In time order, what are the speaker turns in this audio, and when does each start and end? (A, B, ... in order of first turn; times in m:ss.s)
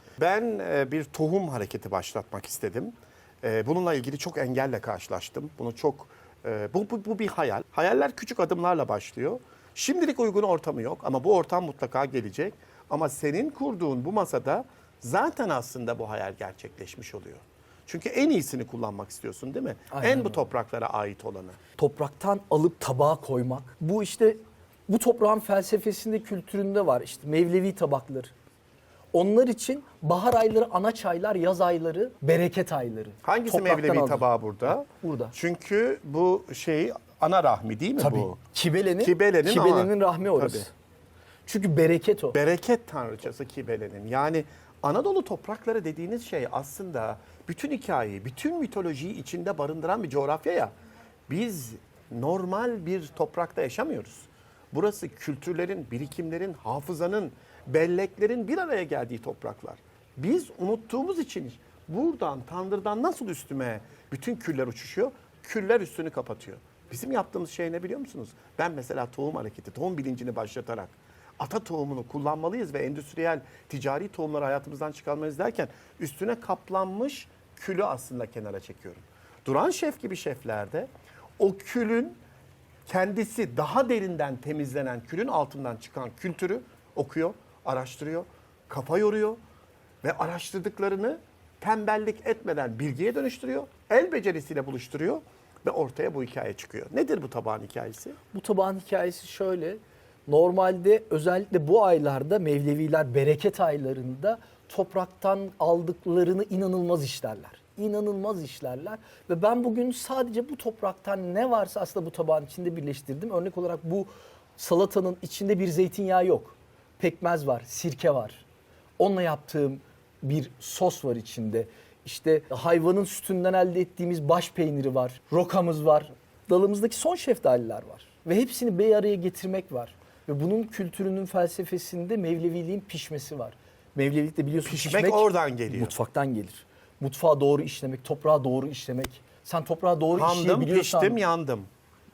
0:00.2-0:21.6 A
0:19.9-0:20.5 B
0:21.8-0:28.3 B
0:29.1-0:35.3 B
0:33.2-0:38.3 A
0:38.0-0:40.7 B
0:39.0-0:40.7 A
0:41.5-0:42.4 B
0:42.3-0:50.7 A
0:51.3-1:22.2 A
1:22.9-1:29.4 A
1:30.0-1:38.2 A
1:38.3-1:58.4 B
1:59.0-2:21.2 B
2:14.6-2:16.0 A
2:20.2-2:21.7 A